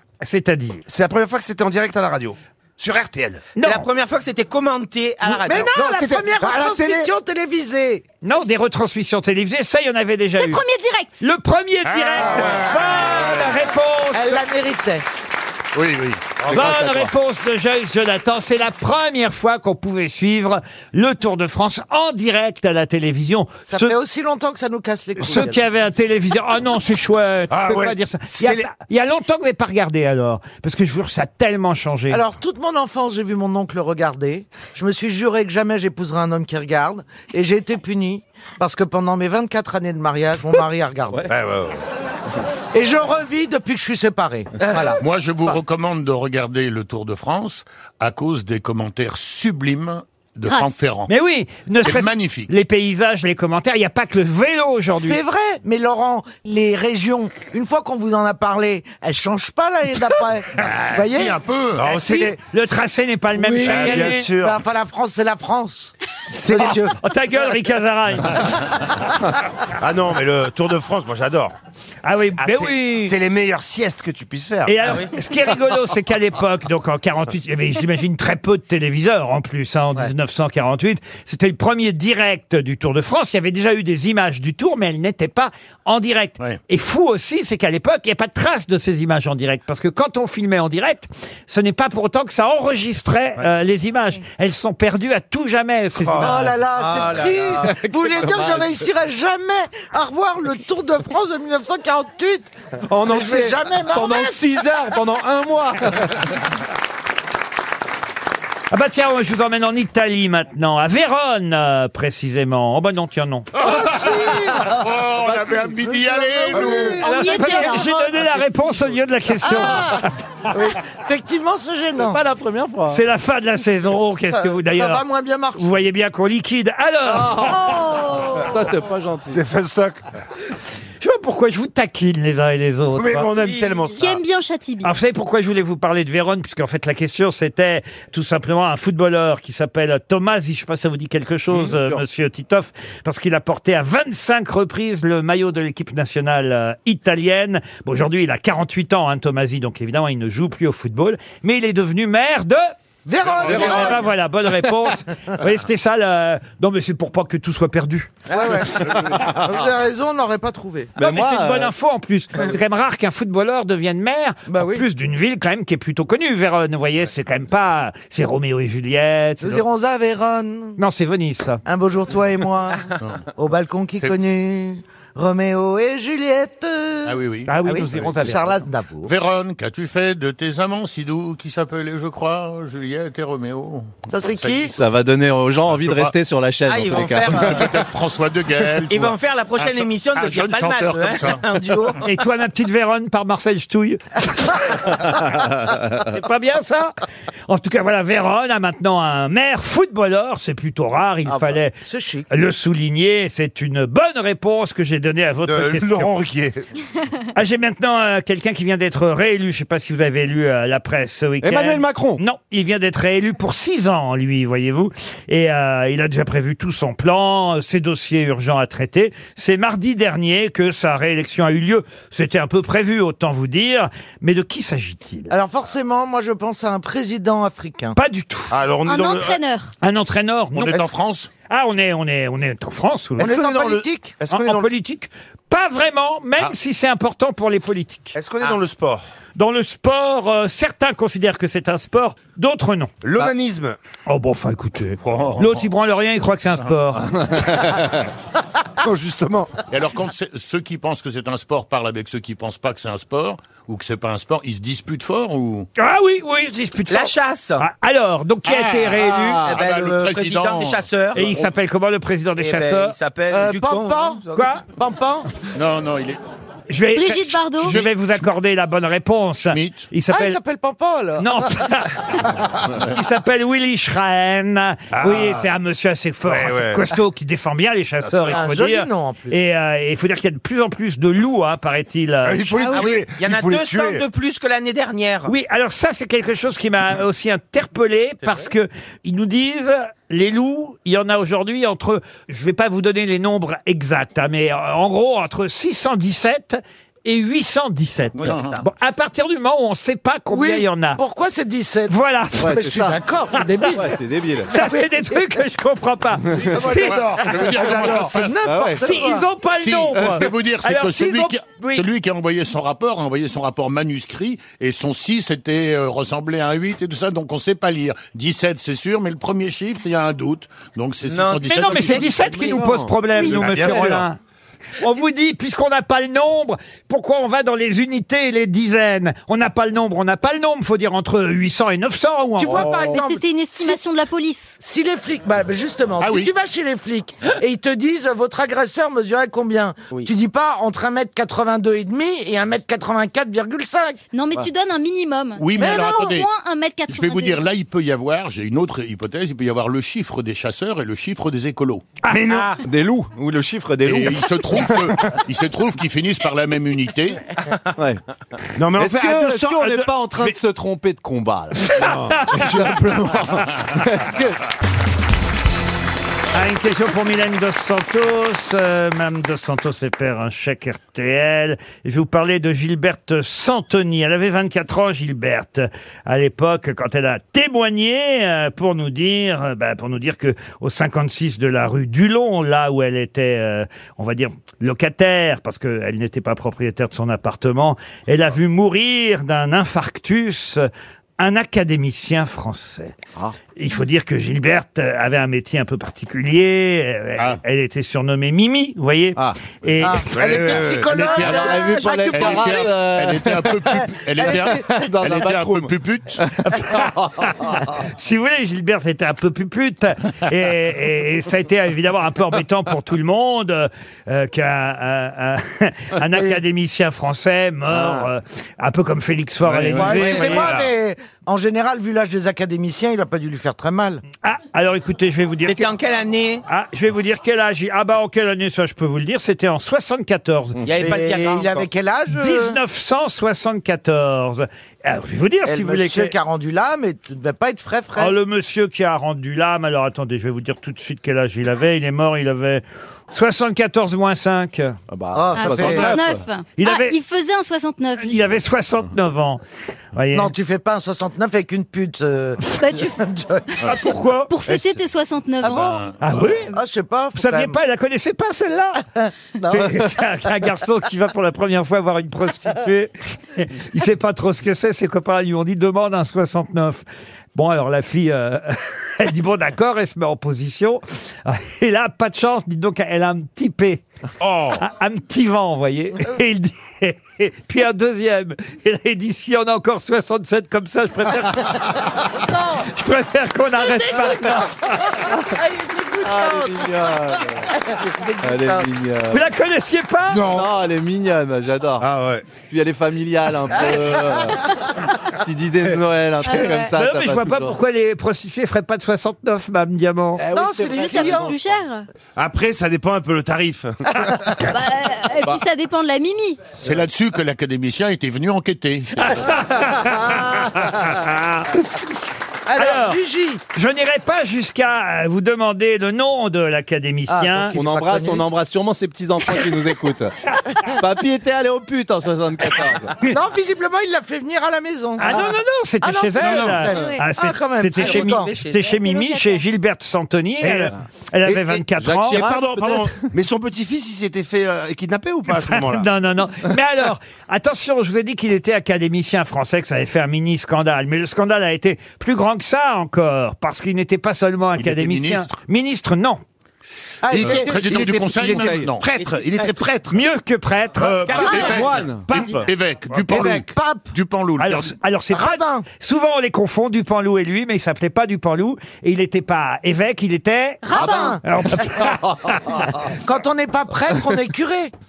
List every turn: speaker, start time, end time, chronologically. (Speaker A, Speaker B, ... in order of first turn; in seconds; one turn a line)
Speaker A: 0.2-0.8
Speaker B: 0.9-3.4
Speaker A: 3.6-3.8
Speaker C: 3.6-5.7
Speaker B: 5.2-7.1
Speaker D: 5.4-8.0
Speaker A: 8.2-10.6
Speaker E: 10.3-11.2
Speaker A: 11.2-14.4
Speaker F: 11.8-13.3
Speaker D: 12.9-13.4
Speaker D: 14.1-15.0
Speaker F: 15.7-16.2
Speaker B: 16.4-16.8
Speaker G: 16.4-17.1
Speaker A: 16.5-23.9
Speaker D: 23.7-25.6
Speaker A: 25.2-32.2
Speaker B: 27.5-28.7
Speaker D: 32.1-41.3
Speaker B: 41.3-41.8
Speaker D: 42.7-45.0
Speaker F: 45.0-51.1
Speaker E: 50.5-50.8
Speaker A: 51.1-55.2
Speaker F: 51.8-52.5
Speaker D: 54.9-61.4
Speaker F: 60.5-61.9
Speaker B: 61.7-62.4
Speaker A: 61.9-64.3
Speaker D: 63.4-66.9
Speaker B: 63.6-64.6
Speaker B: 66.3-66.8
Speaker A: 66.5-68.6
Speaker B: 69.8-71.5
Speaker A: 72.0-73.1
Speaker B: 72.4-74.7
Speaker A: 74.6-96.4
Speaker B: 96.0-97.8
Speaker D: 96.2-102.5
Speaker B: 102.9-104.2
Speaker D: 103.1-104.4
Speaker G: 103.9-105.7
Speaker B: 104.8-105.7
Speaker A: 108.7-113.5
Speaker F: 113.5-116.9
Speaker D: 113.6-114.8
Speaker D: 115.9-117.4
Speaker B: 116.6-116.9
Speaker E: 117.0-118.0
Speaker A: 117.0-120.1
Speaker D: 119.4-120.0
Speaker D: 120.5-122.2
Speaker G: 122.0-123.0
Speaker A: 122.9-125.0
Speaker D: 124.3-125.6
Speaker A: 125.5-127.7
Speaker G: 127.1-127.6
Speaker E: 127.3-128.6
Speaker G: 128.3-129.4
Speaker B: 129.3-130.0
Speaker A: 131.0-133.3
Speaker B: 132.9-134.2
Speaker C: 133.4-133.8
Speaker E: 133.9-134.9
Speaker A: 134.8-152.7
Speaker G: 141.5-142.0
Speaker D: 153.1-154.1
Speaker A: 153.4-158.2
Speaker G: 153.4-154.0
Speaker B: 153.4-153.7
Speaker D: 158.3-160.9
Speaker G: 159.3-159.5
Speaker G: 160.9-161.7
Speaker A: 161.0-169.6
Speaker D: 164.5-164.8
Speaker D: 169.4-170.8
Speaker A: 170.8-171.6
Speaker D: 171.7-172.8
Speaker D: 173.3-179.1
Speaker F: 177.0-178.0
Speaker A: 177.5-178.6
Speaker F: 179.0-183.9
Speaker D: 184.1-184.7
Speaker F: 184.4-184.7
Speaker G: 184.6-187.7
Speaker F: 185.7-186.1
Speaker C: 186.7-187.7
Speaker F: 187.1-191.5
Speaker C: 188.9-192.0
Speaker A: 192.0-195.3
Speaker A: 195.9-196.9
Speaker A: 197.5-201.8
Speaker D: 201.3-202.3
Speaker A: 202.3-206.1
Speaker B: 205.4-206.6
Speaker A: 207.3-225.3
Speaker G: 211.4-212.2
Speaker D: 225.3-227.9
Speaker A: 227.9-228.5
Speaker B: 228.5-229.4
Speaker E: 228.8-229.7
Speaker A: 229.8-230.9
Speaker F: 230.6-231.3
Speaker A: 231.5-233.3
Speaker B: 233.2-234.7
Speaker D: 233.2-234.2
Speaker A: 234.3-238.2
Speaker B: 238.1-239.0
Speaker A: 239.3-242.9
Speaker B: 243.0-243.8
Speaker A: 244.1-247.1
Speaker F: 245.0-245.6
Speaker B: 248.8-249.5
Speaker F: 249.7-255.7
Speaker A: 255.8-259.4
Speaker C: 256.9-257.6
Speaker F: 258.4-261.3
Speaker G: 259.2-259.6
Speaker C: 259.4-261.5
Speaker A: 261.1-262.9
Speaker C: 262.4-264.5
Speaker D: 263.3-265.3
Speaker A: 264.3-264.6
Speaker F: 265.5-266.2
Speaker A: 266.7-270.4
Speaker E: 266.9-267.8
Speaker F: 269.5-269.9
Speaker D: 270.1-271.6
Speaker A: 271.2-282.6
Speaker B: 274.9-275.5
Speaker B: 276.2-276.9
Speaker B: 278.1-278.4
Speaker D: 278.3-279.4
Speaker B: 282.2-284.1
Speaker E: 282.6-282.9
Speaker C: 282.7-285.3
Speaker A: 285.2-301.0
Speaker C: 298.2-298.6
Speaker F: 298.2-298.6
Speaker D: 300.3-303.9
Speaker A: 301.9-302.6
Speaker G: 302.4-303.0
Speaker G: 303.6-304.5
Speaker A: 304.5-307.0
Speaker D: 304.5-304.8
Speaker D: 306.6-309.3
Speaker B: 306.6-307.2
Speaker F: 306.8-308.3
Speaker A: 307.7-308.1
Speaker G: 308.4-308.8
Speaker A: 308.8-311.8
Speaker F: 309.6-322.2
Speaker C: 321.0-322.6
Speaker A: 321.5-324.2
Speaker G: 322.5-324.0
Speaker B: 323.2-324.1
Speaker A: 324.8-332.7
Speaker D: 332.4-333.8
Speaker E: 332.8-334.6
Speaker D: 334.6-344.0
Speaker F: 336.0-336.3
Speaker E: 344.1-347.4
Speaker F: 345.4-346.3
Speaker D: 345.6-345.9
Speaker F: 346.9-351.9
Speaker B: 352.1-352.6
Speaker G: 352.6-354.9
Speaker F: 353.8-357.2
Speaker G: 357.7-358.0
Speaker B: 358.6-360.3
Speaker G: 358.7-364.4
Speaker A: 361.7-362.7
Speaker B: 361.8-362.8
Speaker A: 366.3-392.9
Speaker A: 393.6-400.0
Speaker D: 399.8-402.7
Speaker B: 400.1-401.1
Speaker F: 400.7-406.2
Speaker G: 401.1-407.4
Speaker D: 404.2-404.8
Speaker A: 406.4-420.5
Speaker F: 419.4-420.5
Speaker D: 419.8-424.0
Speaker B: 420.2-420.7
Speaker A: 424.2-425.7
Speaker C: 425.4-426.4
Speaker A: 426.5-430.6
Speaker C: 430.6-431.7
Speaker D: 430.7-432.6
Speaker A: 432.1-436.1
Speaker D: 435.4-438.2
Speaker A: 437.9-444.8
Speaker G: 444.9-446.2
Speaker D: 445.1-446.0
Speaker E: 445.3-448.2
Speaker A: 446.6-447.0
Speaker A: 448.0-449.4
Speaker A: 449.9-450.3
Speaker D: 450.1-453.5
Speaker E: 452.4-453.1
Speaker A: 453.6-454.4
Speaker E: 454.3-455.8
Speaker F: 455.4-456.3
Speaker A: 456.0-456.5
Speaker D: 456.5-457.6
Speaker A: 457.1-458.8
Speaker D: 458.9-459.9
Speaker A: 459.5-473.8
Speaker B: 474.2-474.6
Speaker A: 474.6-481.8
Speaker A: 482.6-484.9
Speaker D: 483.8-486.9
Speaker G: 486.0-487.5
Speaker D: 487.7-488.6
Speaker G: 488.2-489.3
Speaker A: 489.1-490.2
Speaker B: 490.1-490.5
Speaker G: 490.1-494.5
Speaker B: 491.8-492.2
Speaker G: 495.1-497.6
Speaker E: 496.2-496.7
Speaker A: 496.7-500.2
Speaker D: 500.2-501.4
Speaker G: 500.3-501.3
Speaker C: 500.4-500.8
Speaker E: 500.6-501.9
Speaker B: 502.2-504.0
Speaker E: 504.4-506.6
Speaker F: 506.6-509.4
Speaker A: 509.0-511.9
Speaker D: 512.5-513.4
Speaker A: 512.5-513.0
Speaker A: 513.5-517.5
Speaker D: 517.1-518.2
Speaker G: 517.5-522.9
Speaker D: 523.0-528.3
Speaker A: 525.0-532.2
Speaker E: 526.7-527.0
Speaker C: 527.8-528.7
Speaker E: 528.6-529.4
Speaker B: 530.4-535.9
Speaker G: 531.7-533.1
Speaker A: 535.4-546.2
Speaker F: 544.6-545.3
Speaker D: 547.0-547.6
Speaker B: 547.1-550.0
Speaker F: 547.1-548.8
Speaker G: 548.2-548.7
Speaker C: 548.9-549.6
Speaker A: 549.9-551.5
Speaker B: 550.7-552.5
Speaker C: 551.0-551.4
Speaker F: 551.2-551.8
Speaker G: 551.2-552.4
Speaker F: 552.4-554.7
Speaker D: 553.1-553.9
Speaker B: 553.1-553.4
Speaker A: 554.4-562.8
Speaker D: 555.1-555.6
Speaker E: 560.6-561.2
Speaker D: 560.8-561.2
Speaker G: 561.8-562.3
Speaker D: 562.9-564.7